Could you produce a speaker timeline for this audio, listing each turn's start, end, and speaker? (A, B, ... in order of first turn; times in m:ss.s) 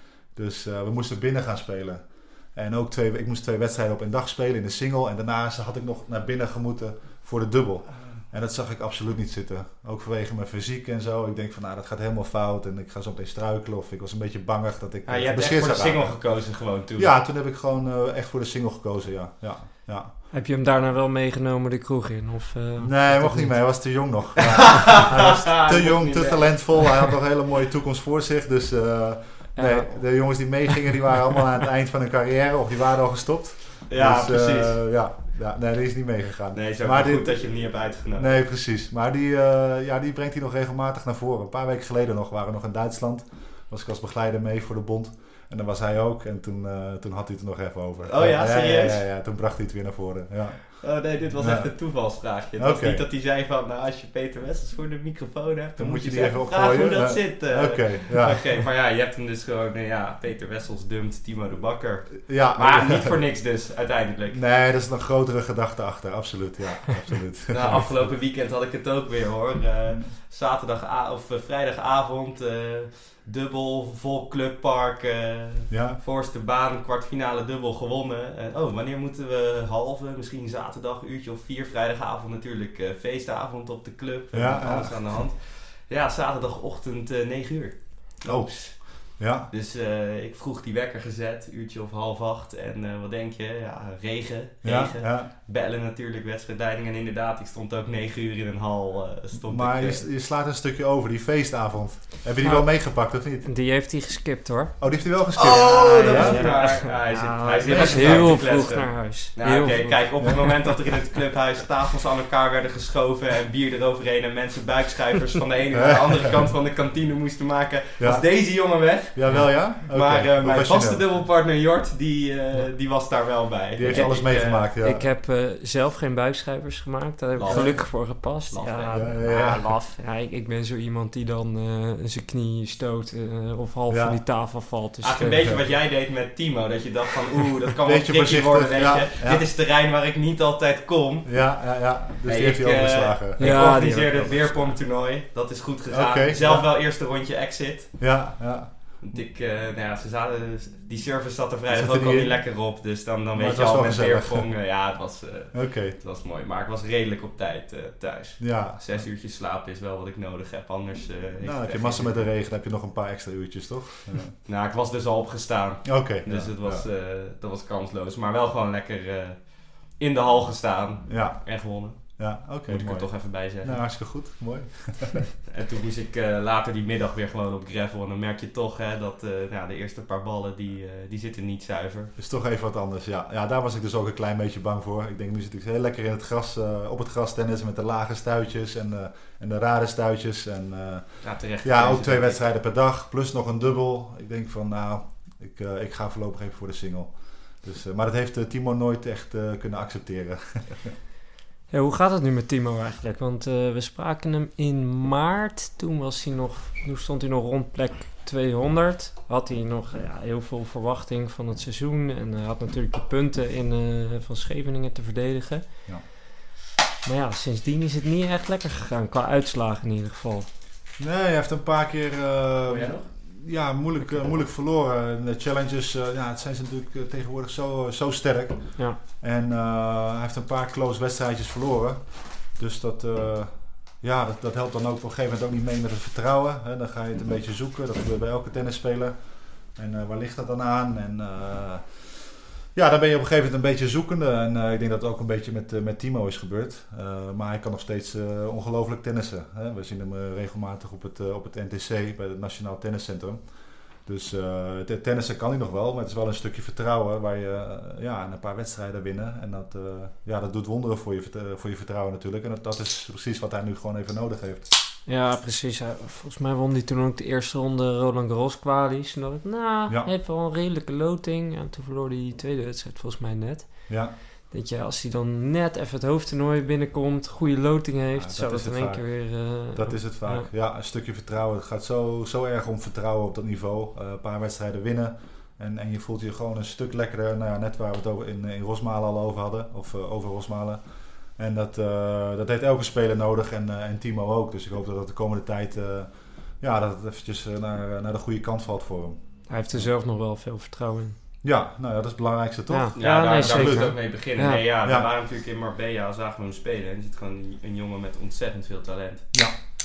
0:00.3-0:16.4 A
0:15.0-0:17.1 B
0:16.9-0:20.1 A
0:20.3-0:24.2 C
0:22.8-0:51.8 A
0:24.7-0:27.0 B
0:29.6-0:31.0 C
0:33.9-0:34.8 B
0:36.5-0:38.4 B
0:48.0-0:49.0 B
0:50.8-1:04.4 B
0:52.6-0:53.0 A
0:55.8-0:58.4 A
1:02.2-1:03.2 A
1:04.3-1:08.1 A
1:07.5-1:40.1 B
1:15.7-1:16.0 A
1:24.3-1:25.2 A
1:28.2-1:29.5 A
1:34.6-1:35.3 A
1:39.4-1:43.5 A
1:42.4-1:44.8 C
1:44.8-1:46.5 A
1:45.4-2:04.7 B
1:46.1-1:50.8 C
1:47.6-1:48.4 A
1:55.7-1:56.3 A
1:58.0-2:01.2 A
2:03.7-2:05.0 A
2:03.9-2:15.4 C
2:07.3-2:09.1 B
2:07.5-2:07.8 A
2:08.9-2:09.7 A
2:13.9-2:14.2 A
2:15.0-2:21.6 B
2:15.4-2:15.7 A
2:17.8-2:19.4 A
2:21.2-2:24.7 A
2:22.2-2:28.3 B
2:23.4-2:24.5 C
2:25.9-2:26.7 A
2:28.0-2:29.2 A
2:29.0-2:42.2 B
2:31.7-2:32.4 A
2:33.3-2:34.5 A
2:35.5-2:36.0 A
2:38.4-2:39.1 A
2:41.4-2:44.3 A
2:44.4-2:53.8 B
2:45.8-2:46.9 A
2:51.1-2:55.3 A
2:55.5-3:02.1 B
3:02.2-3:20.9 A
3:11.2-3:12.4 B
3:21.7-3:36.1 C
3:37.0-3:40.5 C
3:41.0-4:13.4 A
3:42.7-3:43.0 B
4:14.0-4:24.7 A
4:25.0-4:40.5 C
4:33.9-4:34.1 A
4:38.1-4:59.9 A
4:59.5-5:01.2 C
5:01.4-5:04.1 A
5:02.7-5:04.6 C
5:03.0-5:09.3 B